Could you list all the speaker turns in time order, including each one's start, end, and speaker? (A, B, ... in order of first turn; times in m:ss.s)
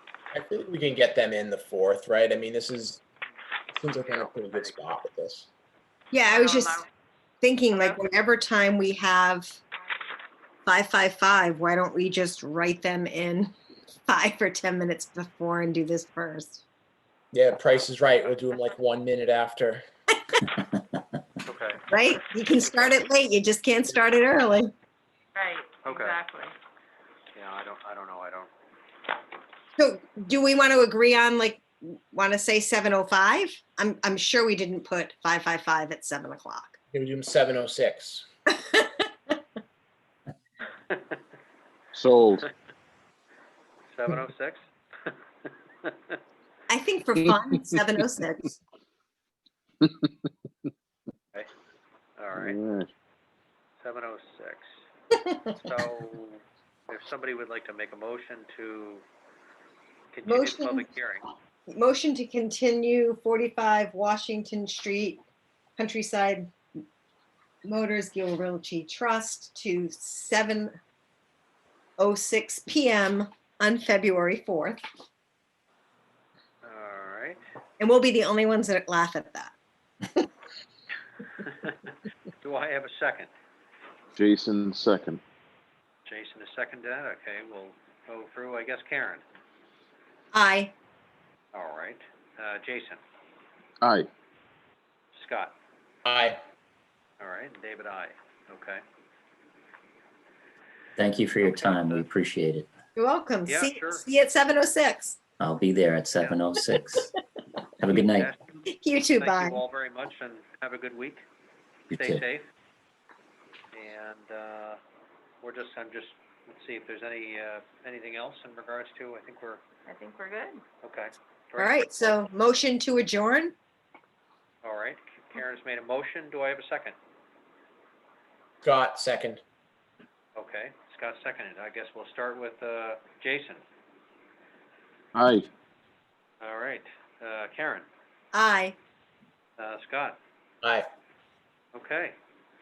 0:00.3-0:03.0 A
0:03.7-0:05.5 A
0:04.0-0:04.8 B
0:06.1-0:06.8 C
0:06.2-0:06.9 D
0:07.4-0:09.6 C
0:07.7-0:08.0 D
0:10.6-0:13.5 C
0:14.1-0:16.6 C
0:17.3-0:19.8 A
0:21.4-0:21.8 B
0:21.9-0:24.7 C
0:22.6-0:23.0 B
0:25.3-0:26.5 D
0:25.8-0:26.2 B
0:27.3-0:28.5 B
0:29.8-0:36.8 C
0:36.9-0:38.3 A
0:38.5-0:39.3 C
0:41.9-0:42.4 E
0:43.9-0:45.1 B
0:45.8-0:46.1 B
0:46.7-0:48.6 C
0:49.8-0:50.1 E
0:52.2-0:52.6 B
0:52.3-0:52.9 E
0:53.8-0:54.6 B
0:55.1-0:55.5 C
0:55.6-0:59.0 B
1:00.1-1:01.3 B
1:00.2-1:00.8 C
1:01.7-1:05.2 C
1:05.8-1:06.5 C
1:07.6-1:10.7 C
1:12.0-1:14.8 C
1:16.6-1:17.4 B
1:17.8-1:19.5 C
1:22.4-1:23.3 B
1:24.2-1:25.2 E
1:26.0-1:29.2 B
1:30.3-1:30.7 C
1:31.5-1:33.0 B
1:33.8-1:34.1 E
1:35.2-1:35.6 B
1:36.0-1:36.4 A
1:37.2-1:38.8 B
1:41.0-1:42.7 F
1:41.4-1:42.1 B
1:43.0-1:45.2 C
1:43.4-1:44.0 B
1:45.4-1:47.1 F
1:47.8-1:48.3 F
1:47.9-1:48.6 B
1:48.7-1:49.6 C
1:49.2-1:51.2 B
1:51.9-1:52.2 F
1:51.9-1:52.5 B
1:53.7-1:54.8 B
1:55.4-1:59.6 B
1:59.8-2:00.6 D
2:00.8-2:02.2 B
2:01.6-2:03.6 C
2:04.6-2:07.0 B
2:08.6-2:09.4 A
2:10.4-2:13.6 B
2:15.1-2:15.5 E
2:16.4-2:17.9 B
2:18.3-2:18.8 C
2:19.6-2:20.2 B
2:20.6-2:20.9 A
2:21.7-2:22.2 B